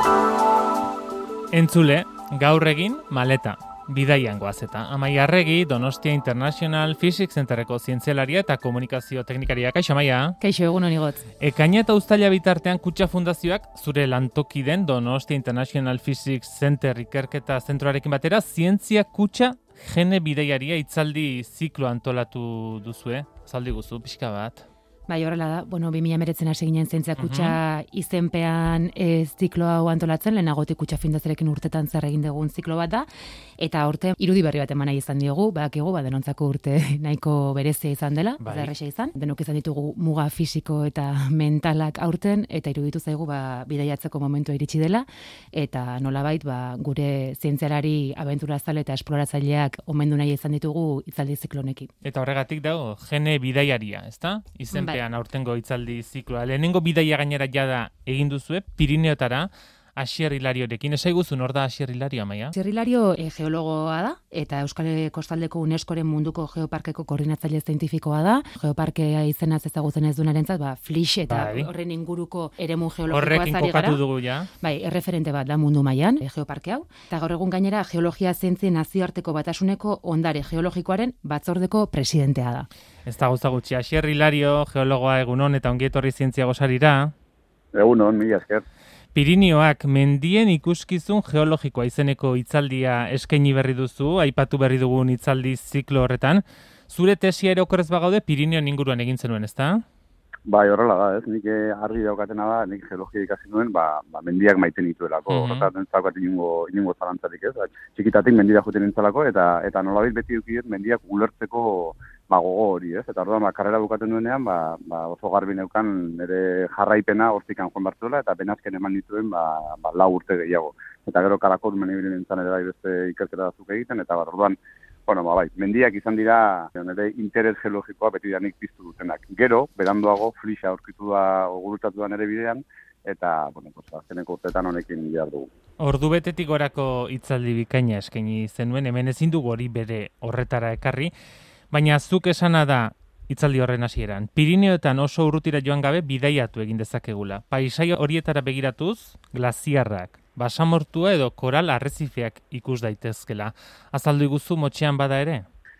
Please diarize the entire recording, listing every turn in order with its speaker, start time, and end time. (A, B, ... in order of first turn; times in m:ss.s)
0:01.5-0:10.4 A
0:10.4-0:11.3 B
0:11.4-0:24.6 A
0:25.1-0:33.1 B
0:27.2-0:27.6 A
0:33.6-0:51.9 B
0:38.4-0:38.7 A
0:52.0-1:02.5 A
0:54.7-0:55.0 B
1:02.5-1:14.0 B
1:11.3-1:11.7 A
1:13.1-1:14.5 A
1:14.6-1:22.7 B
1:23.1-1:27.1 A
1:27.8-1:28.6 C
1:29.1-1:39.8 A
1:40.5-2:04.6 C
1:45.3-1:45.7 A
2:05.1-2:15.5 C
2:15.8-2:21.1 A
2:21.7-2:35.4 A